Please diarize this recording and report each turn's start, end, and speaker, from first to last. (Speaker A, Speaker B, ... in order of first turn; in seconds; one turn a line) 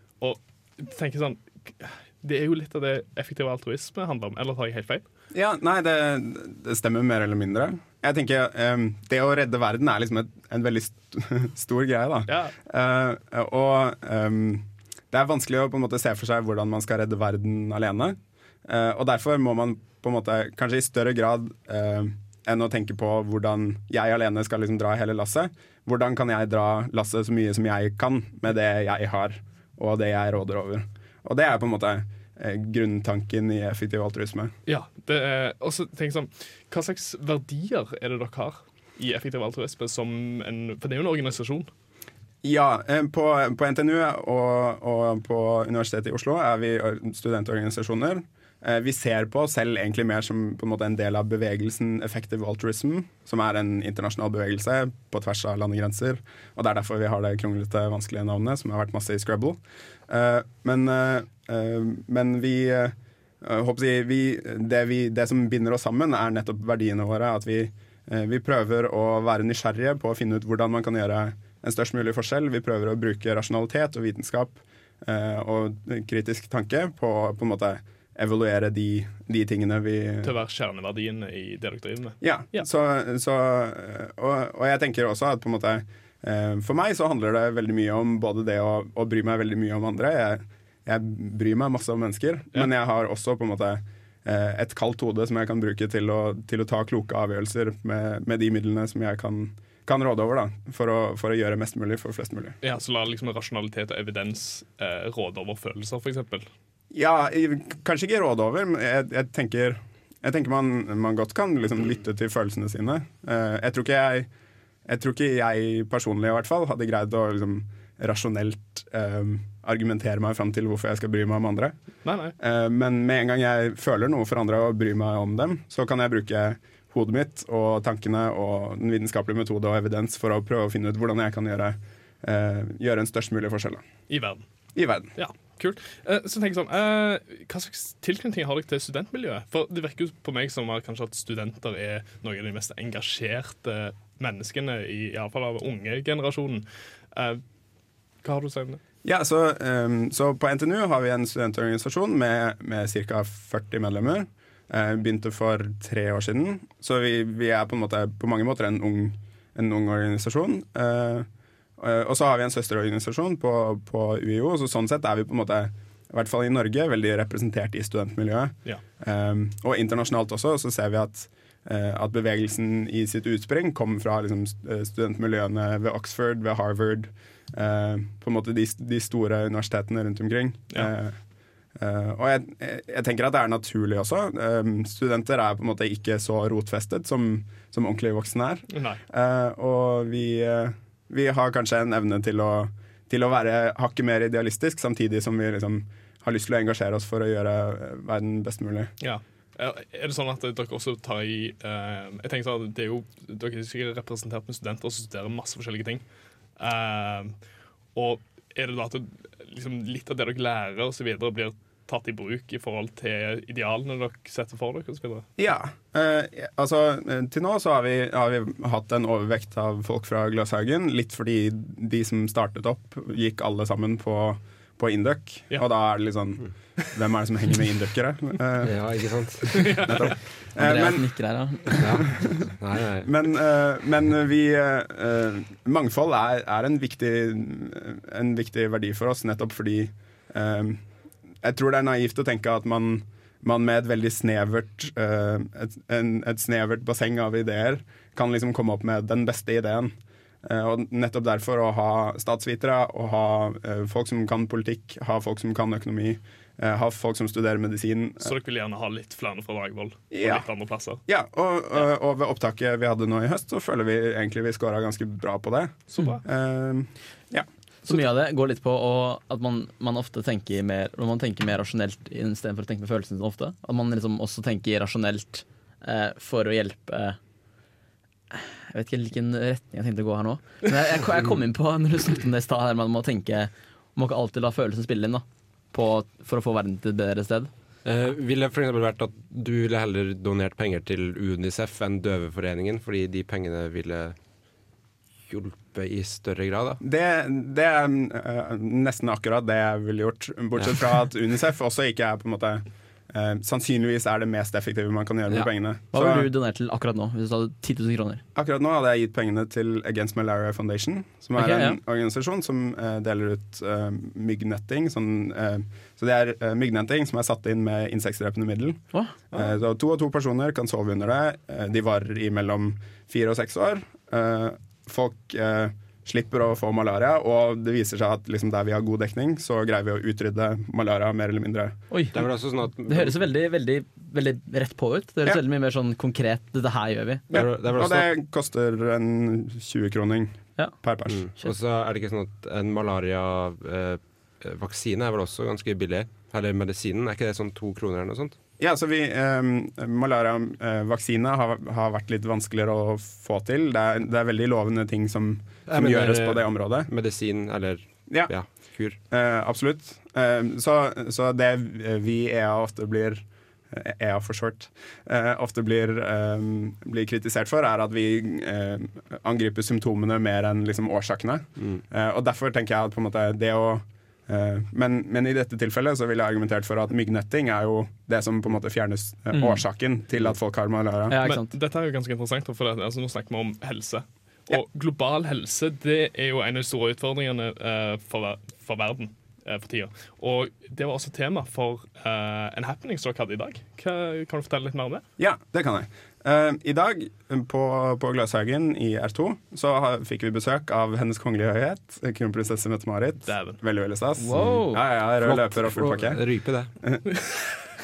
Speaker A: 0.2-5.0
Speaker B: 5.3-34.5
Speaker A: 12.3-12.5
Speaker A: 34.7-41.7
Speaker B: 42.4-80.3
Speaker A: 80.2-82.6
Speaker B: 82.2-102.6
Speaker A: 102.6-106.5
Speaker B: 106.9-114.3
Speaker B: 114.8-121.8
Speaker A: 122.0-122.3
Speaker B: 122.4-133.8
Speaker A: 134.1-134.4
Speaker B: 134.7-135.1
Speaker A: 135.2-147.4
Speaker A: 148.2-148.8
Speaker B: 149.0-181.2
Speaker B: 181.8-198.9
Speaker A: 188.7-189.0
Speaker A: 199.0-206.0
Speaker A: 206.6-207.3
Speaker A: 207.9-215.3
Speaker B: 215.4-228.8
Speaker C: 228.6-230.1
Speaker B: 229.5-231.1
Speaker A: 229.5-230.1
Speaker D: 230.6-231.9
Speaker C: 231.7-233.1
Speaker B: 231.8-232.3
Speaker B: 233.0-240.8
Speaker B: 241.4-249.9
Speaker B: 250.4-258.3
Speaker A: 258.2-261.0
Speaker B: 260.1-260.5
Speaker B: 261.1-267.9
Speaker A: 265.9-266.2
Speaker D: 267.8-277.2
Speaker D: 278.3-287.5
Speaker C: 287.8-294.1
Speaker C: 295.3-296.8
Speaker B: 296.8-306.3
Speaker D: 305.3-308.2
Speaker B: 308.3-331.8
Speaker D: 311.4-311.8
Speaker D: 331.9-332.2
Speaker C: 332.1-333.2
Speaker D: 332.9-337.3
Speaker B: 337.3-341.3
Speaker C: 337.3-338.1
Speaker C: 341.1-348.4
Speaker B: 348.6-356.9
Speaker C: 355.7-358.9
Speaker B: 358.1-358.3
Speaker B: 359.0-381.2
Speaker D: 379.3-379.6
Speaker D: 381.1-381.5
Speaker A: 381.2-395.0
Speaker B: 395.2-406.2
Speaker A: 403.3-403.6
Speaker D: 404.2-404.8
Speaker C: 404.4-404.6
Speaker C: 405.2-406.7
Speaker B: 406.8-407.1